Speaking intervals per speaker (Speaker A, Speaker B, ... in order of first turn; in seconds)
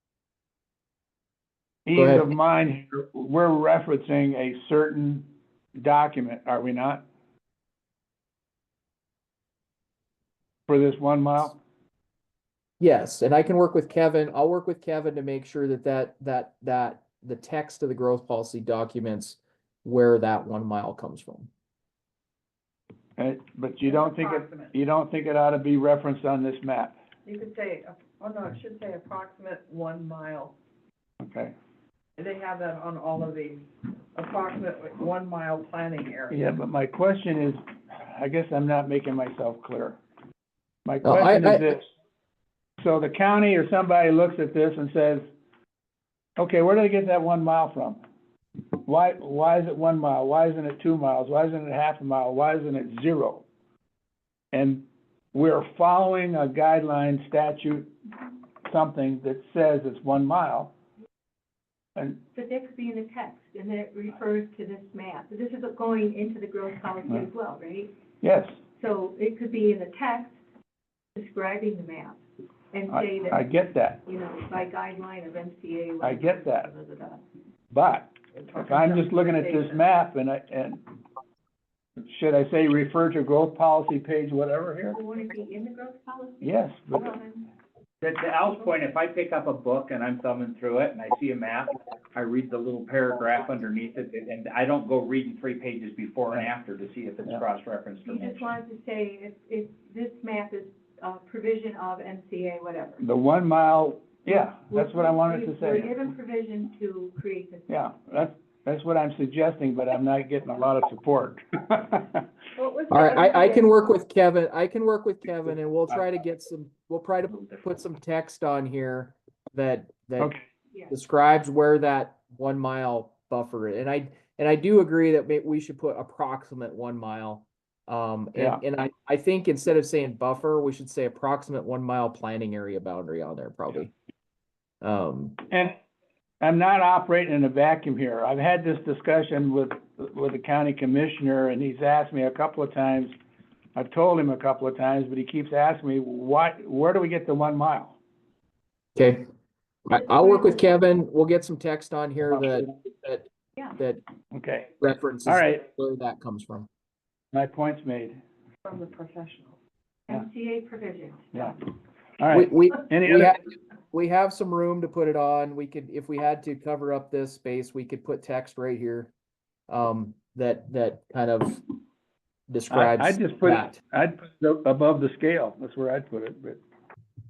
Speaker A: 1.9-7.0, 10.7-11.6, 23.2-27.0, 31.2-31.5, 36.3-40.0, 40.9-41.8, 42.8-45.3, 46.4-48.0, 48.8-53.5, 54.5-57.9, 58.6-60.7, 68.2-68.5, 72.9-74.0, 76.0-76.7, 77.7-80.8, 82.1-85.0, 86.4-87.2, 103.0-105.9, 107.7-112.2, 128.4-128.6, 135.5-135.8, 136.4-143.1, 143.8-148.0, 154.3-154.7, 155.3-155.6, 157.3-158.2, 162.2-163.4, 172.7-176.6
Speaker B: 1.9-2.3, 12.8-21.5, 41.0-41.7, 112.9-120.3, 120.9-133.9, 134.8-135.4, 149.0-149.2, 149.9-154.0, 154.8-156.7, 162.3-163.4, 163.9-169.1, 169.7-171.7, 172.5-173.8
Speaker C: 23.8-24.8, 27.3-30.5, 32.2-36.4, 78.4-79.8, 112.6-113.8, 158.7-159.6
Speaker D: 62.3-67.9, 68.8-70.3, 71.2-72.2, 72.7-73.4, 74.0-77.2, 84.9-87.5, 98.1-103.0, 104.7-107.7, 160.1-161.6
Speaker E: 88.0-98.5